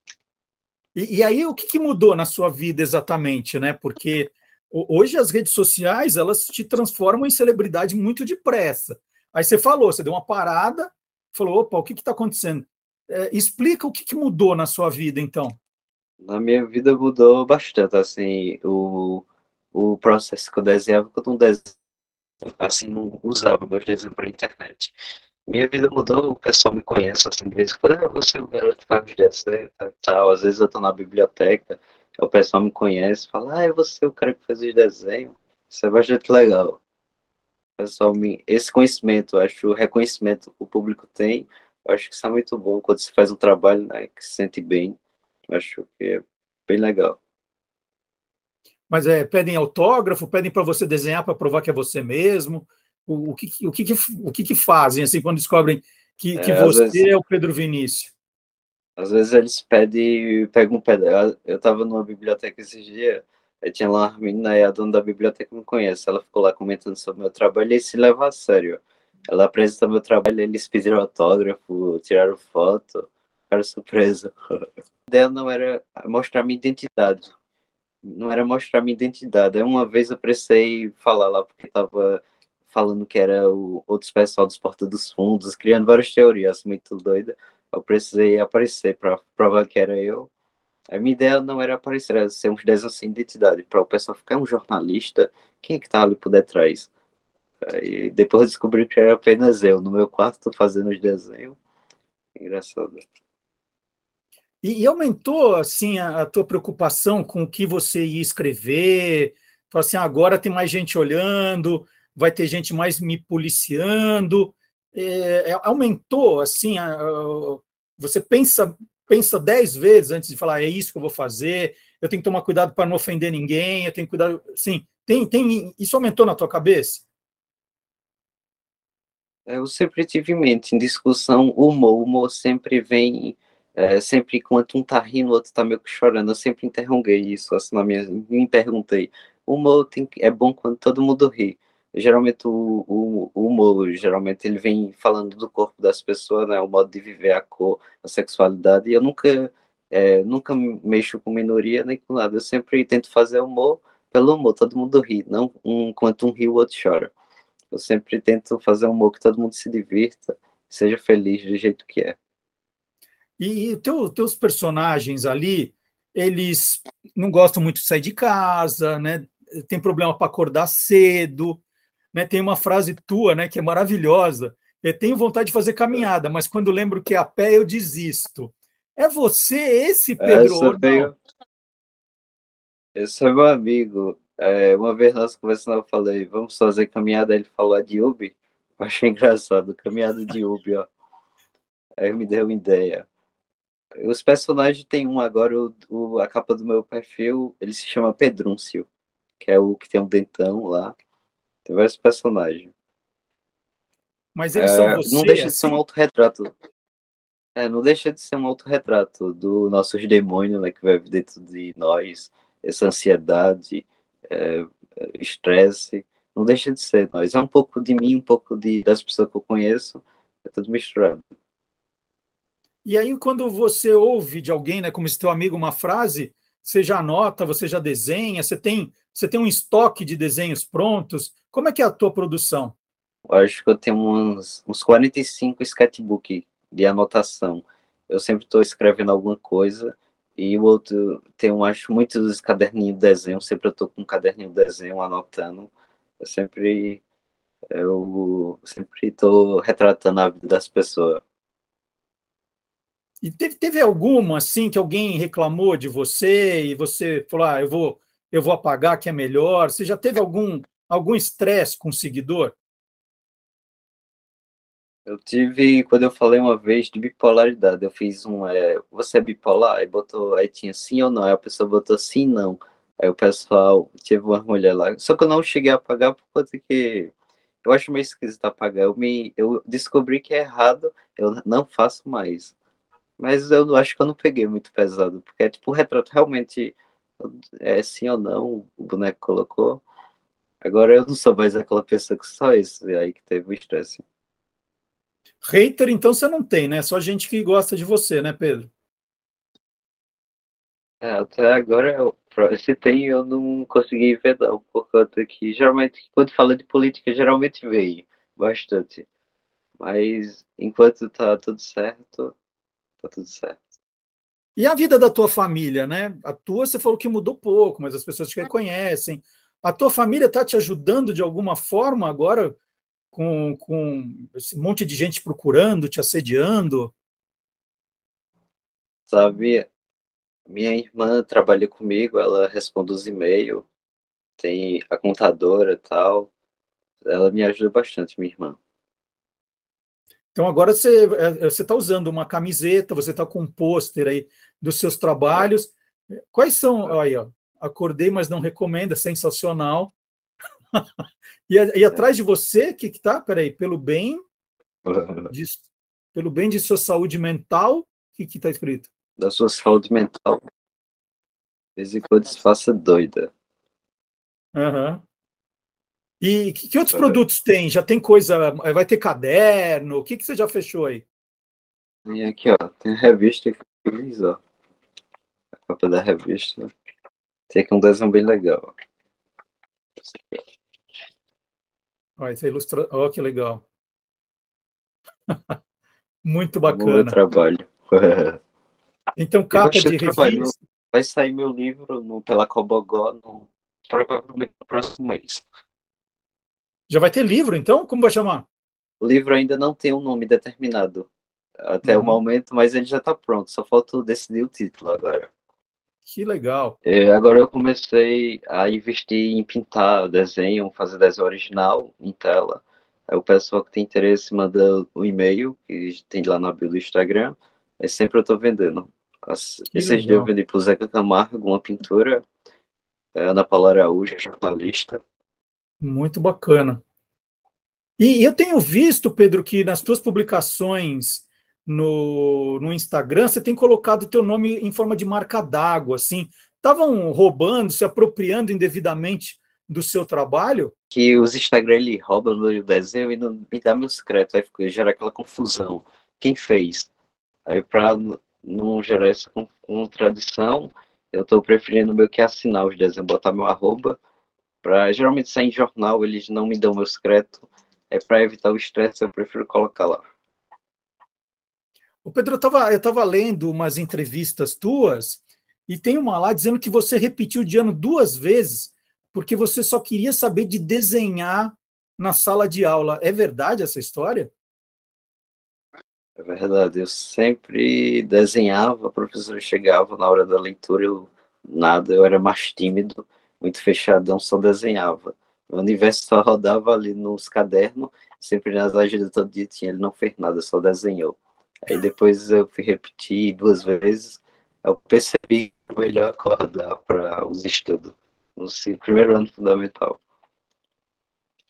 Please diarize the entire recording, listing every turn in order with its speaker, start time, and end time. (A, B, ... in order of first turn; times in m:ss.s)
0:01.0-0:15.6 A
0:16.2-0:21.7 B
0:22.4-0:24.9 B
0:25.5-0:36.8 B
0:37.8-0:45.0 B
0:45.5-0:47.2 B
0:48.9-0:58.1 A
0:56.4-0:57.0 B
0:59.0-1:17.3 B
1:18.0-1:30.3 B
1:30.9-1:36.9 B
1:37.6-1:41.6 B
1:42.4-1:43.0 B
1:44.6-2:07.0 A
2:09.5-2:37.1 B
2:37.7-2:42.1 B
2:43.4-2:51.6 A
2:52.1-3:01.1 A
3:00.2-3:01.1 B
3:03.0-3:10.9 B
3:12.0-3:13.0 B
3:14.0-3:18.9 B
3:19.4-3:21.0 B
3:21.6-3:22.7 B
3:24.3-3:25.8 A
3:24.6-3:26.5 B
3:27.6-3:41.2 B
3:42.8-3:52.7 A
3:53.3-4:07.0 B
4:07.7-4:11.2 B
4:13.2-4:22.5 A
4:25.1-4:37.1 B
4:37.6-4:42.5 B
4:43.2-4:49.8 B
4:50.6-4:54.0 B
4:55.4-4:58.7 A
5:01.0-5:09.0 B
5:09.8-5:12.3 B
5:13.0-5:13.6 B
5:14.6-5:22.6 A
5:23.1-5:26.9 A
5:29.1-5:29.6 B
5:30.5-5:33.6 B
5:34.4-5:36.3 B
5:37.0-5:38.6 B
5:40.3-5:45.7 A
5:46.3-5:49.9 A
5:51.5-5:54.2 A
5:54.9-5:55.3 B
5:55.3-5:58.9 A
5:59.2-6:00.4 B
6:01.8-6:03.3 B
6:04.6-6:05.0 A
6:06.2-6:11.0 A
6:06.9-6:07.2 B
6:12.0-6:14.4 B
6:15.7-6:16.7 B
6:17.5-6:18.7 B
6:22.2-6:23.6 A
6:26.2-6:27.2 A
6:26.7-6:28.4 B
6:29.2-6:30.5 A
6:29.5-6:35.4 B
6:36.9-6:38.4 A
6:39.0-6:41.1 B
6:41.6-6:45.3 B
6:41.8-6:42.2 A
6:46.1-6:46.8 A
6:46.9-7:02.2 B
6:59.7-7:00.3 A
7:03.1-7:05.0 B
7:05.8-7:06.8 A
7:08.0-7:20.7 A
7:20.9-7:26.9 B
7:27.4-7:34.0 B
7:34.6-7:40.0 B
7:42.0-7:54.3 A
7:56.2-8:20.0 B